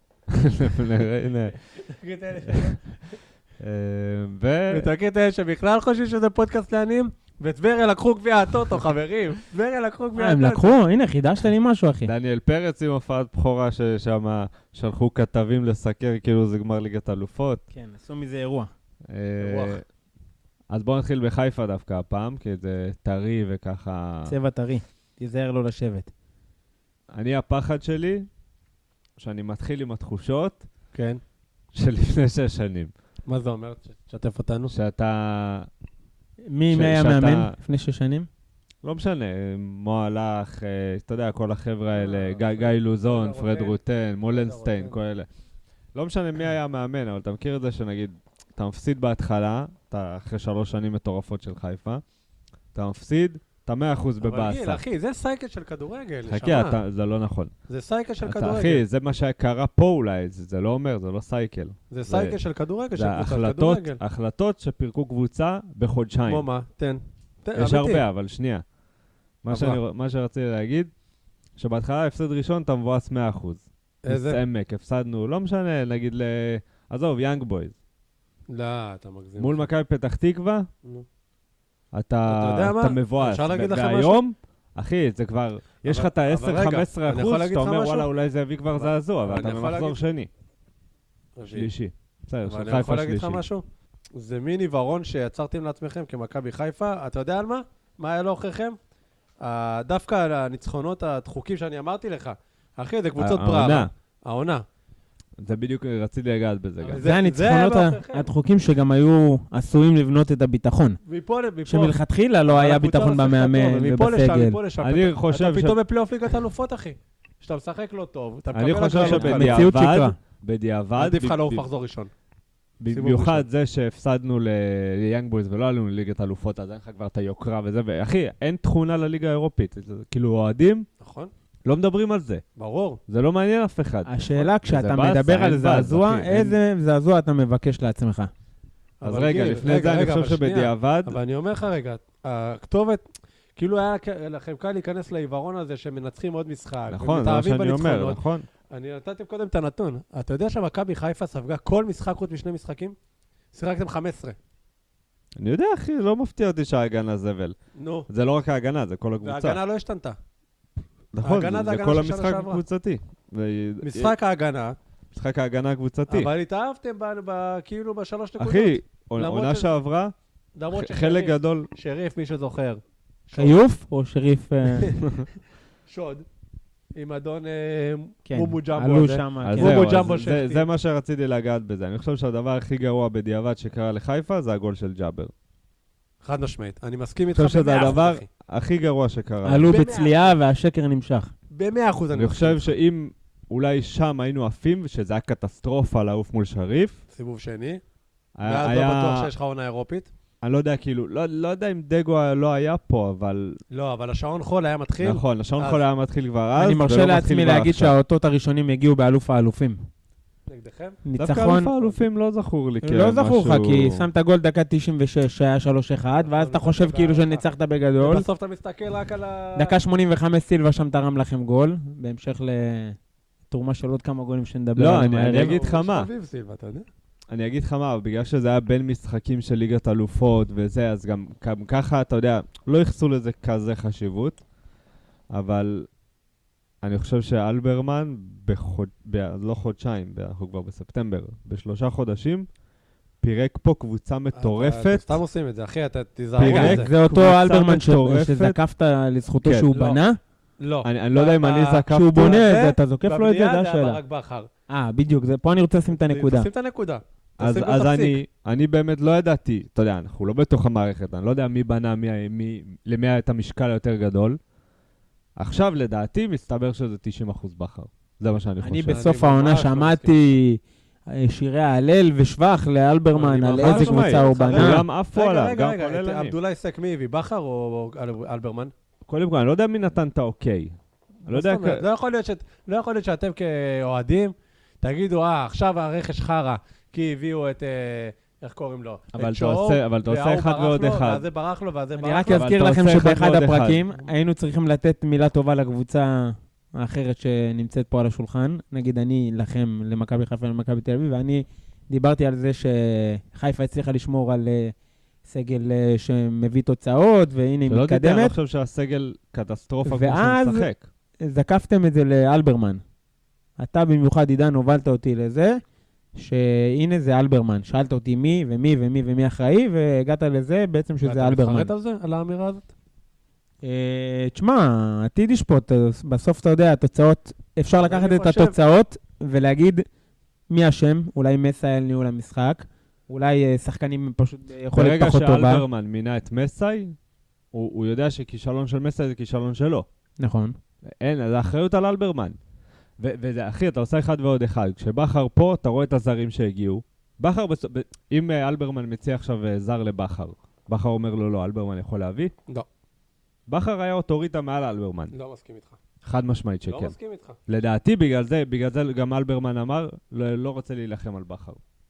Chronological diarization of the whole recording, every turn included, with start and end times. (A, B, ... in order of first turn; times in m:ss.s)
0:00.3-0:01.6 A
0:01.7-0:02.9 B
0:02.4-0:02.8 A
0:03.6-0:04.9 A
0:04.7-0:10.7 B
0:10.2-0:12.1 C
0:12.0-0:17.6 A
0:17.7-0:18.7 C
0:19.1-0:19.8 A
0:19.4-0:19.8 B
0:20.7-0:24.4 A
0:24.3-0:26.1 C
0:27.1-0:28.3 A
0:29.2-0:30.7 A
0:30.9-0:31.2 B
0:31.7-0:32.9 A
0:33.3-0:34.7 B
0:34.7-0:35.7 A
0:36.5-0:38.3 C
0:36.7-0:37.6 A
0:38.8-0:45.3 A
0:42.0-0:43.8 B
0:44.3-0:45.0 B
0:46.0-0:52.0 A
0:52.7-0:54.8 A
0:54.2-0:56.8 B
0:56.3-0:57.5 A
0:57.7-0:58.8 B
0:58.2-1:02.4 A
1:01.9-1:04.0 B
1:03.0-1:06.5 A
1:06.3-1:08.0 B
1:07.6-1:08.6 A
1:09.4-1:10.9 A
1:09.5-1:09.8 B
1:11.6-1:17.8 A
1:14.0-1:14.4 B
1:18.5-1:19.7 B
1:19.4-1:20.7 A
1:21.9-1:30.3 A
1:22.3-1:24.2 B
1:25.8-1:28.1 B
1:28.7-1:30.0 B
1:31.4-1:31.7 B
1:31.5-1:33.4 A
1:32.5-1:33.6 B
1:34.2-1:38.8 B
1:39.4-1:44.6 B
1:43.2-1:43.9 A
1:45.4-1:47.0 A
1:46.8-1:48.3 B
1:47.0-1:51.0 C
1:51.0-1:59.7 B
1:51.7-1:54.6 C
1:54.8-1:55.8 A
1:58.5-2:01.7 A
1:59.0-2:00.2 C
2:01.0-2:02.1 B
2:02.8-2:10.9 A
2:02.9-2:03.5 B
2:11.0-2:11.3 B
2:11.7-2:12.4 A
2:12.6-2:13.0 B
2:13.1-2:16.6 A
2:14.1-2:18.3 C
2:19.0-2:21.2 A
2:19.0-2:33.0 B
2:26.9-2:28.5 A
2:33.5-2:34.4 B
2:35.4-2:37.6 A
2:37.8-2:38.1 B
2:38.1-2:39.6 A
2:39.2-2:40.2 B
2:41.1-2:44.1 A
2:41.2-2:42.6 B
2:43.8-2:44.8 B
2:45.1-2:46.3 A
2:46.1-2:49.7 B
2:48.4-2:50.1 A
2:50.6-2:53.6 B
2:50.7-2:51.7 A
2:53.3-2:55.0 C
2:54.8-2:55.2 B
2:55.9-2:56.2 B
2:57.0-3:00.7 B
2:58.3-2:59.8 C
2:59.4-3:05.3 A
3:06.2-3:08.3 B
3:07.3-3:09.8 A
3:09.4-3:11.3 C
3:09.6-3:10.4 B
3:11.5-3:12.7 B
3:12.2-3:17.0 A
3:17.1-3:17.8 B
3:18.4-3:19.3 A
3:18.5-3:20.1 B
3:20.4-3:23.6 A
3:23.7-3:25.8 B
3:25.0-3:27.9 A
3:26.6-3:29.8 C
3:30.5-3:31.0 B
3:31.0-3:31.7 C
3:31.2-3:34.1 A
3:32.8-3:38.3 C
3:36.2-3:37.4 B
3:38.0-3:39.8 B
3:39.6-3:43.0 C
3:43.5-3:45.6 C
3:44.8-3:46.1 A
3:45.3-3:46.9 B
3:47.3-3:54.4 A
3:55.3-3:55.9 A
3:56.8-4:02.5 A
4:03.2-4:05.2 A
4:04.3-4:06.9 B
4:06.4-4:08.6 A
4:06.4-4:10.2 C
4:09.4-4:09.7 A
4:09.7-4:10.0 B
4:10.6-4:14.5 B
4:10.8-4:12.4 A
4:11.9-4:14.0 C
4:14.7-4:16.5 C
4:15.9-4:18.2 B
4:17.4-4:24.4 A
4:25.4-4:29.0 A
4:28.6-4:34.9 C
4:28.9-4:30.1 B
4:33.1-4:38.7 B
4:33.6-4:36.4 A
4:39.1-4:40.8 A
4:41.3-4:41.8 A
4:41.3-4:52.5 B
4:49.1-4:51.2 A
4:52.0-5:04.8 C
4:52.3-4:53.8 A
5:05.3-5:08.4 C
5:07.7-5:10.8 A
5:09.9-5:10.7 C
5:11.2-5:12.8 C
5:13.6-5:15.6 C
5:16.2-5:21.7 C
5:21.0-5:22.7 B
5:23.6-5:29.8 C
5:27.8-5:28.6 B
5:30.5-5:35.6 C
5:34.7-5:37.0 A
5:37.5-5:39.9 A
5:40.2-5:40.6 C
5:41.0-5:42.4 A
5:43.0-5:52.3 A
5:53.5-5:55.1 A
5:55.1-5:55.8 B
5:56.0-5:56.9 A
5:56.7-5:57.4 B
5:57.5-6:01.6 A